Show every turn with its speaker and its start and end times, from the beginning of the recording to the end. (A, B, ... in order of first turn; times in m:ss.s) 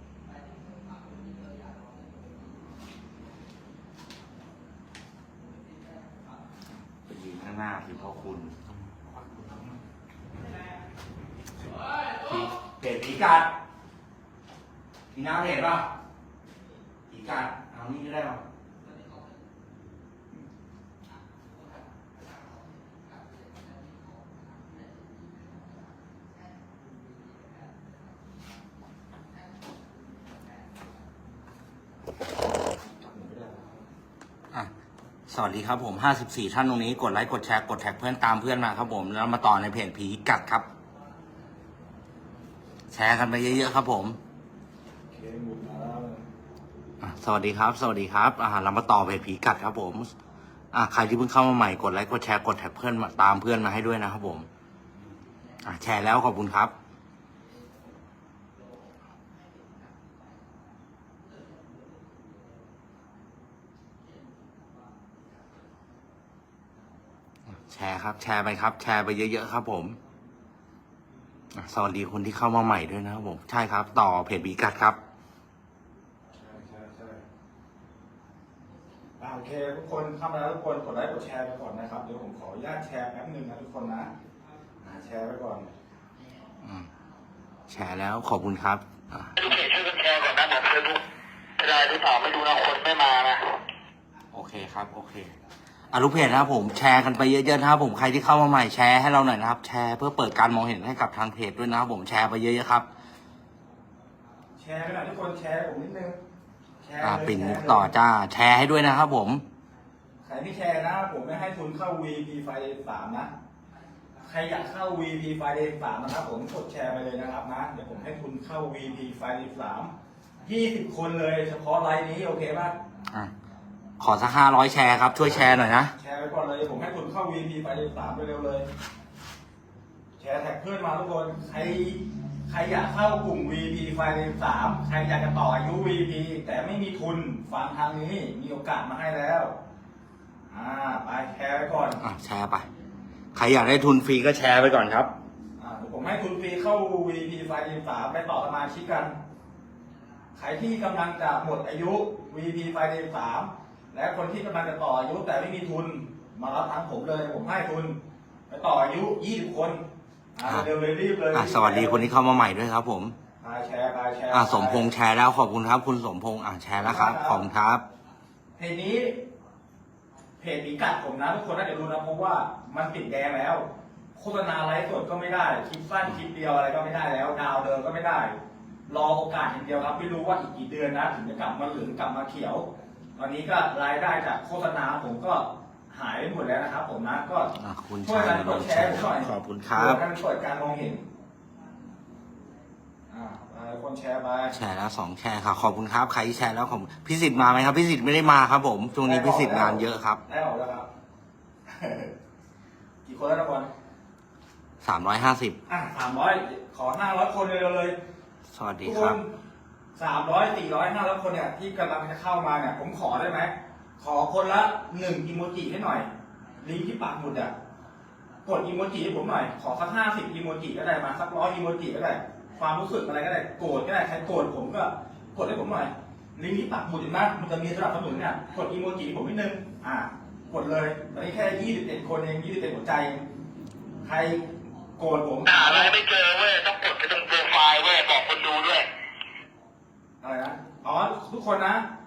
0:07.1-0:08.6 A
0:12.2-0:13.5 A
0:15.1-0:15.9 A
0:17.1-0:18.4 A
0:33.0-0:33.7 B
0:35.3-0:40.7 A
0:42.9-0:44.2 A
0:45.1-0:46.2 B
0:47.0-0:50.1 A
0:50.7-0:54.5 A
0:55.6-0:56.7 A
1:07.7-1:10.0 A
1:11.5-1:15.0 A
1:16.4-1:17.2 B
1:19.2-1:24.1 B
1:24.8-1:25.7 B
1:26.6-1:26.9 A
1:27.7-1:29.5 A
1:29.4-1:31.0 C
1:31.6-1:33.6 C
1:34.3-1:35.3 A
1:35.9-1:42.9 A
1:44.6-1:46.2 B
1:46.8-1:47.9 B
1:47.0-1:49.4 A
1:50.2-1:53.3 B
1:54.2-1:59.9 B
2:00.4-2:02.7 B
2:04.0-2:05.9 A
2:06.0-2:08.7 B
2:10.2-2:19.5 B
2:20.5-2:22.0 B
2:22.0-2:22.7 A
2:23.3-2:25.1 A
2:25.6-2:29.1 B
2:30.4-2:38.0 B
2:38.5-2:39.8 B
2:40.4-2:42.1 B
2:40.4-2:40.7 A
2:41.3-2:43.2 A
2:43.4-2:44.9 B
2:44.3-2:47.8 A
2:46.8-2:47.4 B
2:48.6-2:49.1 B
2:50.4-2:53.6 B
2:54.2-2:58.3 B
2:58.9-3:11.0 B
3:07.5-3:10.0 A
3:13.1-3:14.6 B
3:14.5-3:20.2 A
3:19.0-3:20.9 B
3:21.7-3:22.1 B
3:23.0-3:23.7 B
3:24.8-3:25.6 A
3:25.7-3:28.0 B
3:28.5-3:29.2 A
3:28.8-3:29.3 B
3:30.0-3:36.1 B
3:36.6-3:37.5 B
3:38.4-3:53.2 B
3:54.0-3:54.4 B
3:55.0-3:56.0 B
3:55.5-3:58.9 C
4:00.2-4:01.8 B